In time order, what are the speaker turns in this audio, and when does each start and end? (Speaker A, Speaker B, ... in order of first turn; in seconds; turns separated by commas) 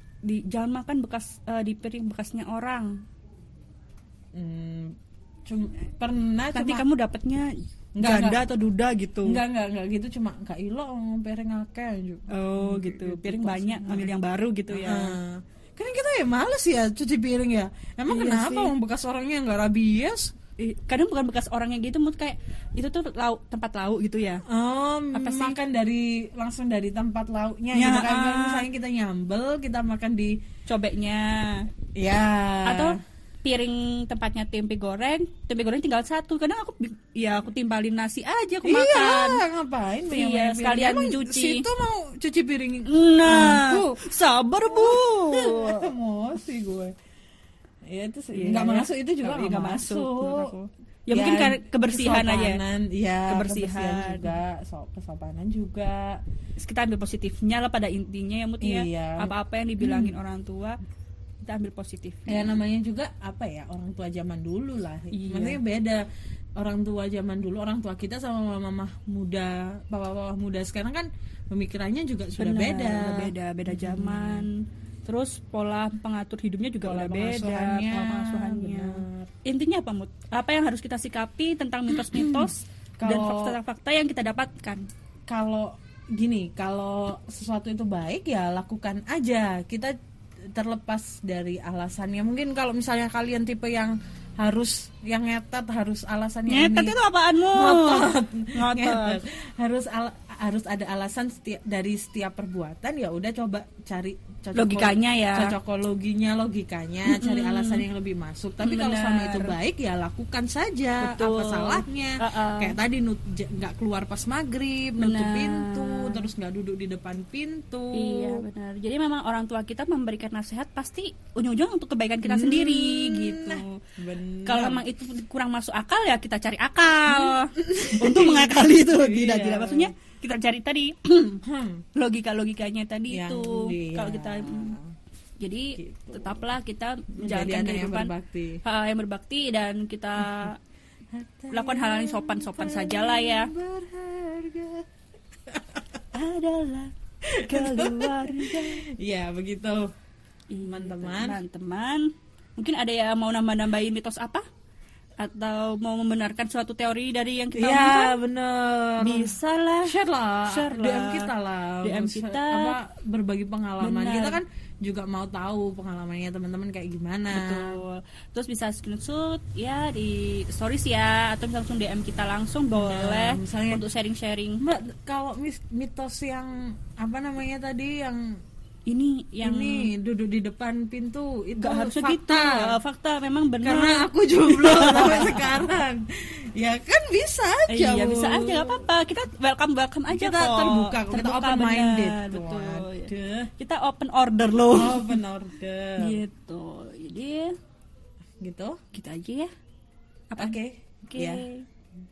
Speaker A: 0.2-3.0, Speaker B: 4.3-6.8, Speaker A: 6.5-7.5, Speaker B: 8.0-8.4, Speaker A: 8.0-9.4, Speaker B: 9.2-14.1, Speaker A: 12.3-15.2, Speaker B: 14.7-20.3, Speaker A: 18.1-18.7, Speaker A: 20.6-24.4, Speaker B: 24.5-30.4, Speaker A: 25.1-25.6, Speaker A: 27.7-28.6, Speaker A: 30.7-31.7, Speaker B: 31.9-33.0, Speaker A: 32.6-39.4, Speaker B: 38.6-44.0, Speaker A: 40.1-41.6, Speaker A: 42.9-45.9, Speaker B: 44.6-46.9, Speaker B: 47.9-50.5, Speaker A: 48.3-52.6, Speaker B: 51.1-56.2, Speaker A: 53.3-54.3, Speaker A: 56.6-60.8, Speaker B: 58.6-60.2, Speaker A: 61.4-62.5, Speaker B: 62.3-66.1, Speaker A: 65.1-65.6, Speaker B: 66.6-74.5, Speaker A: 72.4-84.8, Speaker B: 76.8-79.3, Speaker B: 81.9-83.6, Speaker B: 85.3-89.9, Speaker B: 90.5-97.0, Speaker A: 96.5-99.2, Speaker B: 97.5-118.5, Speaker A: 104.5-105.5, Speaker A: 107.0-107.8, Speaker A: 108.6-109.5, Speaker A: 111.0-112.8, Speaker A: 115.0-116.2, Speaker A: 117.9-123.8, Speaker B: 122.2-124.8, Speaker A: 124.4-131.4, Speaker B: 127.1-129.9, Speaker B: 131.4-131.8, Speaker A: 131.9-134.8, Speaker B: 133.1-134.9, Speaker A: 135.4-138.1, Speaker B: 135.8-136.4, Speaker B: 137.2-138.6, Speaker A: 138.6-140.6, Speaker B: 140.2-140.5, Speaker B: 141.1-144.9, Speaker A: 141.5-143.5, Speaker B: 145.5-146.0, Speaker A: 146.1-146.9, Speaker B: 147.2-149.9, Speaker A: 147.4-148.8, Speaker A: 150.5-154.4, Speaker B: 150.6-151.4, Speaker A: 155.2-158.2, Speaker B: 157.6-159.3, Speaker A: 159.0-161.3, Speaker B: 159.8-167.8, Speaker A: 161.8-162.8, Speaker A: 163.8-164.4, Speaker A: 167.3-174.6, Speaker B: 172.7-173.8, Speaker B: 174.6-178.4, Speaker A: 178.9-179.9, Speaker B: 179.4-182.8, Speaker A: 181.6-185.6, Speaker B: 183.6-188.8, Speaker A: 187.7-195.2, Speaker B: 190.1-193.5, Speaker B: 194.7-196.2, Speaker A: 196.0-197.5, Speaker B: 198.4-198.8, Speaker A: 198.9-199.5, Speaker A: 200.3-201.7, Speaker B: 200.4-201.4